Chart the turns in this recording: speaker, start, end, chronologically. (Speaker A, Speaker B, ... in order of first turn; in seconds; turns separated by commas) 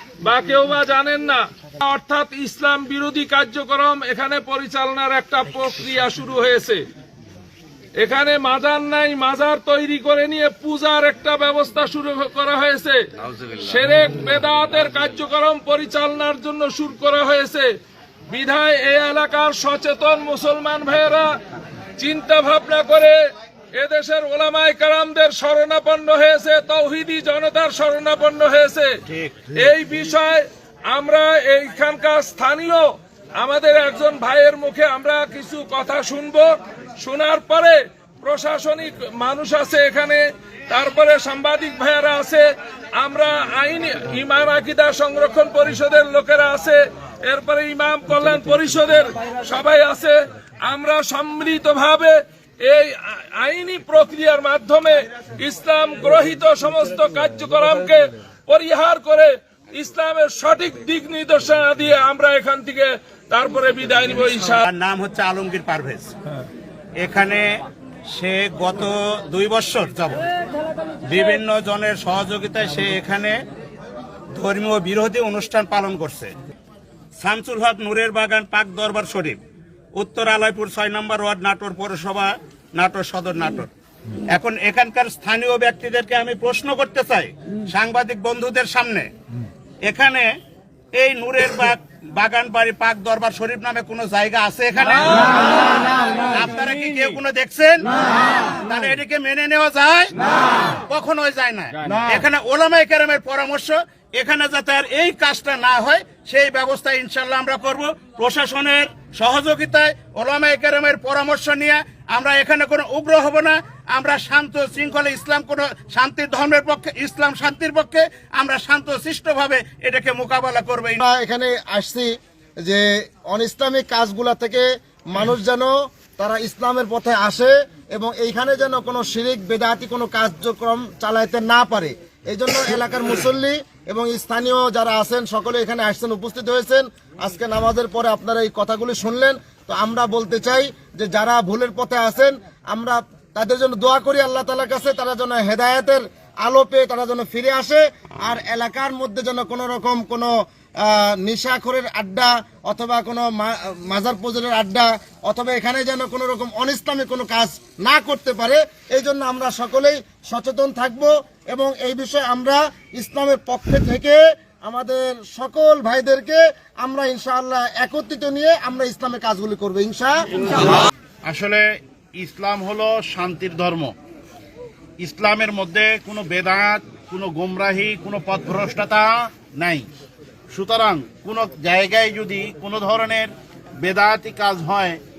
Speaker A: 0.2-6.8, Speaker A: 8.0-17.7, Speaker A: 18.3-21.3, Speaker A: 22.0-23.2, Speaker A: 23.8-28.9, Speaker B: 29.1-29.6, Speaker A: 29.6-36.5, Speaker A: 37.0-64.6, Speaker B: 64.6-66.1, Speaker B: 67.0-67.5, Speaker B: 68.1-70.2, Speaker B: 71.1-73.4, Speaker B: 74.3-76.3, Speaker B: 77.2-79.4, Speaker B: 80.0-83.7, Speaker B: 84.3-89.1, Speaker B: 89.9-90.3, Speaker B: 91.0-100.1, Speaker A: 94.9-95.5, Speaker B: 100.9-121.0, Speaker C: 101.9-102.2, Speaker C: 121.0-122.1, Speaker C: 122.7-150.3, Speaker C: 150.8-170.2, Speaker B: 171.3-171.7, Speaker B: 172.2-173.9, Speaker B: 175.0-179.9, Speaker B: 180.5-183.3, Speaker B: 183.8-185.0